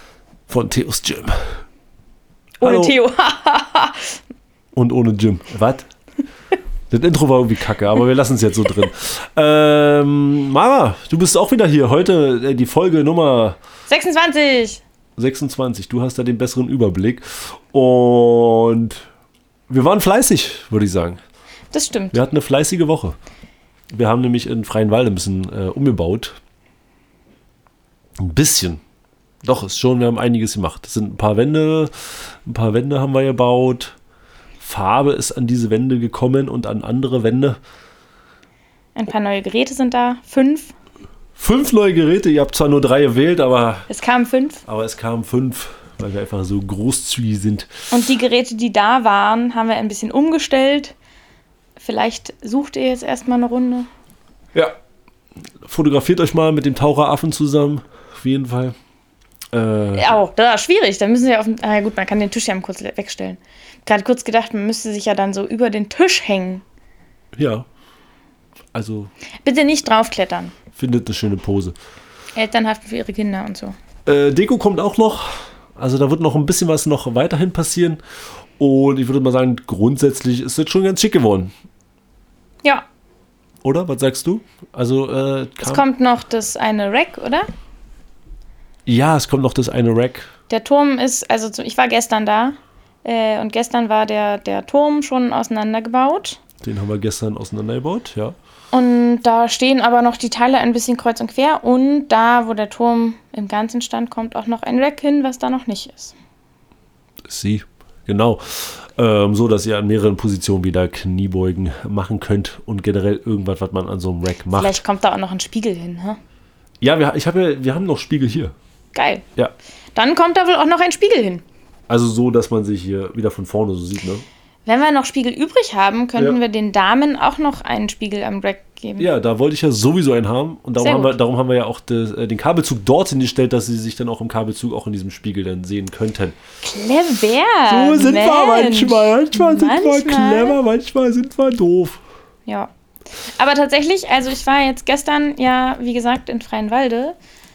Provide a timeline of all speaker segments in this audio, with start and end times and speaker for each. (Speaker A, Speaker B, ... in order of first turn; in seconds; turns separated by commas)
Speaker A: 0.5-1.4, Speaker B: 2.6-4.2, Speaker A: 2.6-3.0, Speaker A: 4.8-5.9, Speaker A: 6.9-13.6, Speaker B: 13.9-14.8, Speaker A: 15.2-19.1, Speaker A: 19.7-21.2, Speaker B: 21.7-22.2, Speaker A: 22.1-23.2, Speaker A: 23.9-26.4, Speaker A: 28.2-28.8, Speaker A: 29.4-34.0, Speaker A: 34.6-37.6, Speaker B: 39.0-40.7, Speaker A: 41.4-43.9, Speaker B: 43.9-44.6, Speaker A: 44.6-47.7, Speaker B: 47.9-50.9, Speaker B: 51.8-53.9, Speaker A: 55.6-58.8, Speaker A: 59.5-60.2, Speaker B: 60.0-66.6, Speaker A: 67.4-67.7, Speaker A: 68.7-69.1, Speaker B: 69.5-70.6, Speaker A: 70.7-71.8, Speaker B: 72.4-73.8, Speaker A: 74.1-75.3, Speaker A: 75.8-78.0, Speaker A: 78.6-81.5, Speaker A: 83.6-85.8, Speaker B: 85.6-87.5, Speaker A: 88.9-90.3, Speaker B: 90.5-96.4, Speaker A: 96.6-98.3, Speaker B: 98.7-106.1, Speaker A: 107.3-114.8, Speaker B: 114.5-116.2, Speaker A: 116.8-118.5, Speaker B: 118.9-119.2, Speaker B: 120.0-121.4, Speaker A: 121.9-124.2, Speaker B: 124.7-129.1, Speaker A: 129.0-136.4, Speaker B: 130.8-131.2, Speaker B: 136.6-140.6, Speaker A: 137.7-142.0, Speaker B: 143.4-147.2